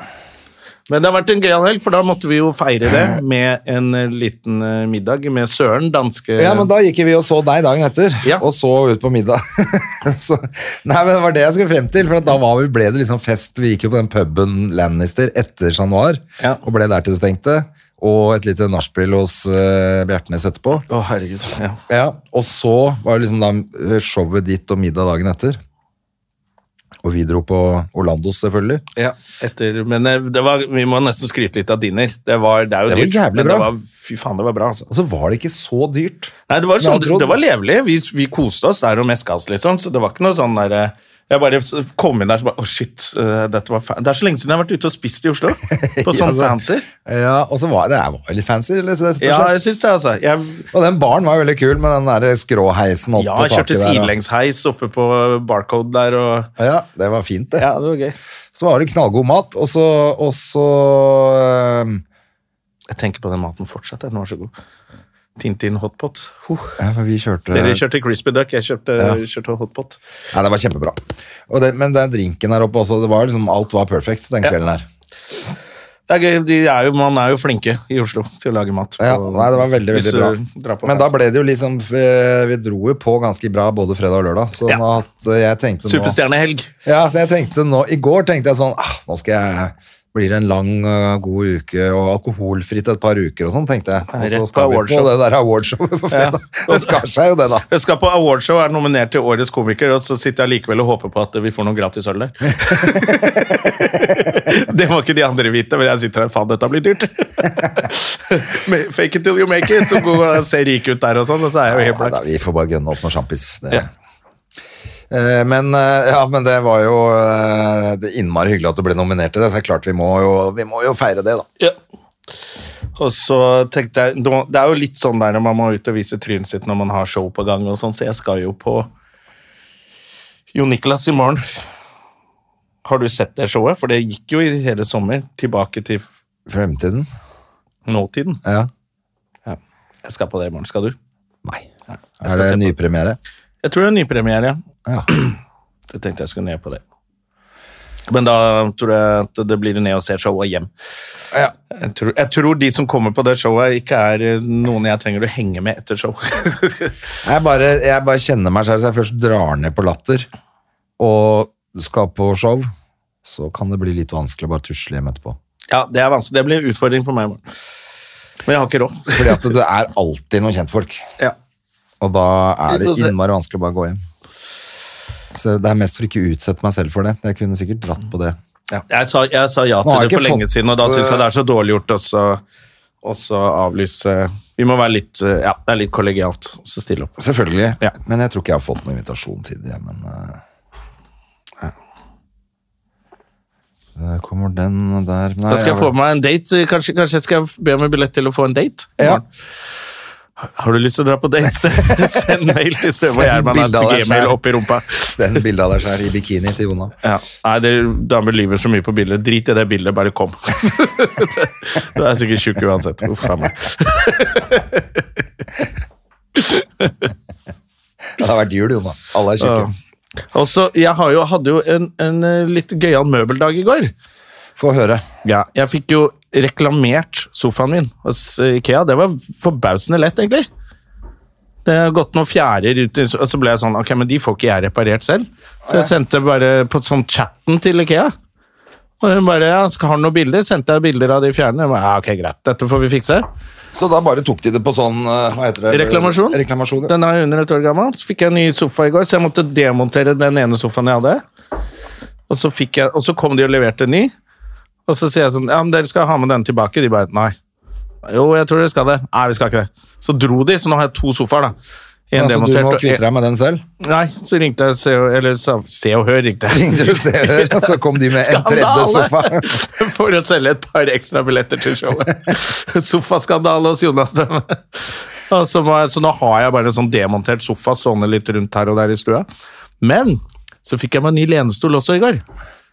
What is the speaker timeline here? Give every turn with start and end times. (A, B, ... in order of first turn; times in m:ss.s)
0:00.9-0:06.7 A
0:06.4-0:20.8 B
0:20.9-0:21.8 A
0:21.9-0:25.6 B
0:27.0-0:28.8 B
0:29.0-0:34.9 A
0:32.9-0:33.7 B
0:34.9-0:37.4 B
0:36.5-0:46.9 A
0:45.6-0:49.6 B
0:49.2-0:50.7 A
0:50.7-0:54.1 B
0:53.2-0:56.5 A
0:56.6-0:57.7 B
0:57.6-0:58.2 A
0:58.6-1:02.0 B
1:02.9-1:04.5 A
1:05.4-1:06.8 A
1:06.8-1:07.8 B
1:07.5-1:10.0 A
1:10.3-1:14.9 B
1:16.1-1:21.1 A
1:19.0-1:26.2 B
1:25.9-1:26.7 A
1:26.8-1:37.7 B
1:34.1-1:35.1 A
1:36.1-1:37.0 A
1:37.7-1:52.2 A
1:42.6-1:44.2 B
1:51.7-1:53.9 B
1:55.1-2:01.5 B
2:03.0-2:08.9 A
2:10.5-2:11.4 A
2:12.8-2:16.1 A
2:16.5-2:17.1 B
2:17.9-2:18.4 A
2:18.4-2:18.7 B
2:19.5-2:21.0 A
2:21.9-2:22.7 A
2:22.2-2:23.2 B
2:23.6-2:25.4 A
2:25.9-2:26.8 A
2:28.1-2:30.7 A
2:31.7-2:36.9 A
2:37.2-2:40.3 B
2:41.0-2:42.7 B
2:43.2-2:45.4 B
2:45.7-2:47.4 A
2:48.5-2:49.5 A
2:49.1-2:51.1 B
2:52.0-2:54.0 B
2:52.7-2:53.2 A
2:55.3-2:58.4 B
2:58.7-3:02.4 A
2:59.8-3:01.2 B
3:03.0-3:07.2 A
3:07.2-3:10.4 B
3:14.0-3:15.9 B
3:15.5-3:19.2 A
3:20.4-3:25.2 A
3:23.0-3:24.4 B
3:25.0-3:26.9 B
3:27.0-3:35.0 A
3:36.4-3:37.1 A
3:38.2-3:39.7 B
3:39.4-3:39.7 A
3:40.3-3:43.9 A
3:44.6-3:45.0 B
3:45.2-3:50.5 A
3:51.6-3:58.1 A
3:55.7-3:55.9 B
3:59.0-4:03.3 A
4:03.7-4:06.9 B
4:05.7-4:11.2 A
4:12.3-4:14.1 A
4:14.9-4:17.4 A
4:18.0-4:21.6 A
4:22.1-4:23.0 A
4:22.2-4:23.6 B
4:23.8-4:39.3 A
4:26.5-4:29.6 B
4:39.8-4:42.2 A